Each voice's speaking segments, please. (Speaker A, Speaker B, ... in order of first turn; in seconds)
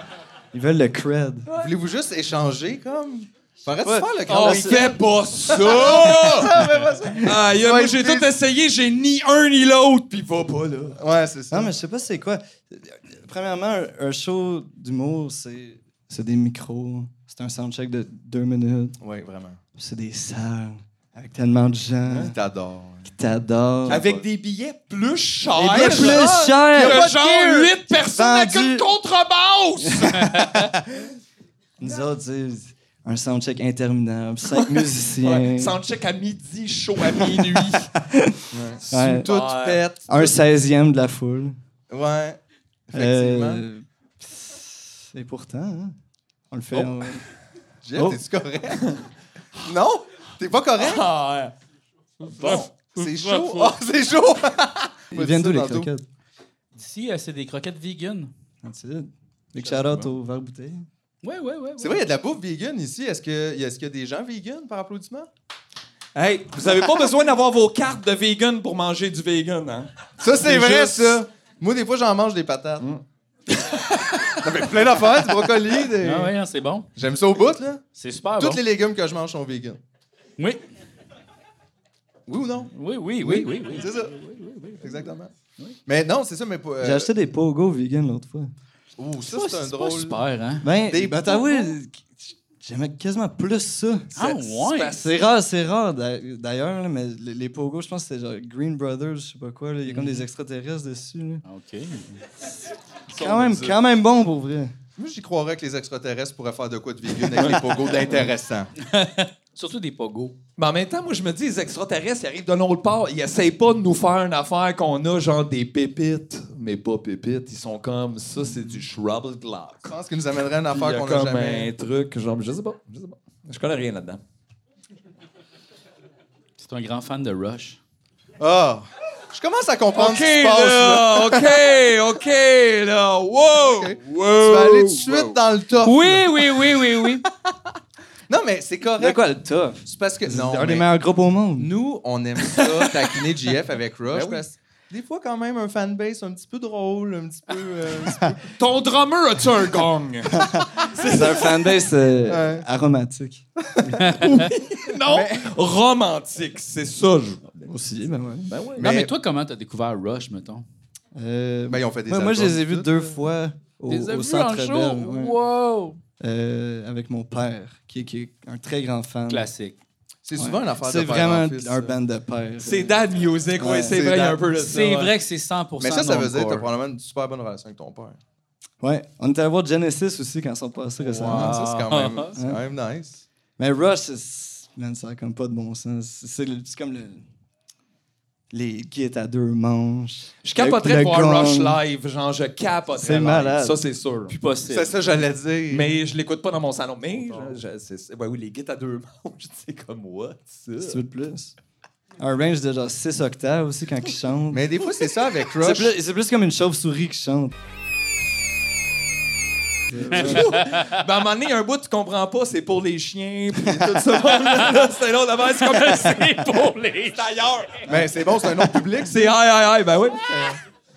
Speaker A: 0.5-1.5, 3.8-5.0, 11.5-19.0, 19.8-22.4, 23.1-24.1, 25.6-27.3, 27.9-28.9, 29.9-30.7, 31.8-35.8, 37.2-39.3, 40.1-41.6, 42.9-46.0, 46.5-47.2, 55.1-56.0, 58.6-60.9, 86.8-88.5, 90.6-94.3, 94.9-101.4, 103.1-104.7, 139.0-141.7, 150.3-153.5, 157.7-158.5, 161.2-165.4, 166.2-169.5, 170.4-173.0, 173.6-174.4, 178.8-181.6, 183.6-187.2, 188.5-191.8, 192.9-193.8, 200.8-201.5, 202.2-204.7, 205.6-207.5, 209.9-210.5, 213.7-214.0
Speaker B: 1.6-5.0, 5.5-8.3, 11.0-11.7, 19.0-19.6, 22.1-23.1, 23.9-24.2, 25.7-27.1, 38.5-40.3, 41.9-43.6, 47.8-48.9, 49.6-51.1, 52.2-55.9, 61.8-65.3, 70.2-72.9, 74.4-76.3, 77.0-77.8, 78.4-79.8, 82.3-84.2, 84.8-85.3, 85.9-87.1, 89.0-90.2, 90.8-91.7, 105.0-108.7, 119.8-121.7, 128.4-131.6, 133.6-136.9, 138.3-139.2, 139.8-140.9, 141.6-148.4, 152.3-152.7, 155.0-155.5, 158.8-159.1, 161.7-163.2, 170.2-172.0, 175.8-178.2, 181.0-183.2, 194.7-195.9, 197.2-197.6, 204.5-205.9, 217.9-219.2
Speaker C: 4.3-6.5, 7.2-11.0, 23.9-30.6, 34.6-37.9, 38.9-39.8, 50.8-51.5, 52.2-53.6, 66.2-69.9, 70.4-71.2, 94.2-95.1, 103.1-103.8, 107.3-107.6, 110.6-119.9, 120.7-124.2, 129.9-135.4, 142.4-143.2, 144.1-144.4, 148.6-151.6, 154.2-157.7, 158.5-158.9, 172.6-175.1, 190.4-194.3, 195.7-201.0, 210.1-216.4, 217.2-217.8, 219.1-220.5
Speaker D: 30.2-30.6, 56.8-58.3, 61.2-62.0, 76.0-76.9, 78.0-78.6, 82.7-85.0, 89.3-90.7, 94.2-95.0, 99.9-100.3, 101.5-102.2, 108.8-110.4, 126.6-127.8, 135.8-137.2, 154.0-154.5, 158.8-160.7, 163.9-166.0, 169.3-169.8, 174.6-176.7, 181.2-182.3, 194.3-194.9, 210.2-211.0, 214.4-214.8, 215.5-217.3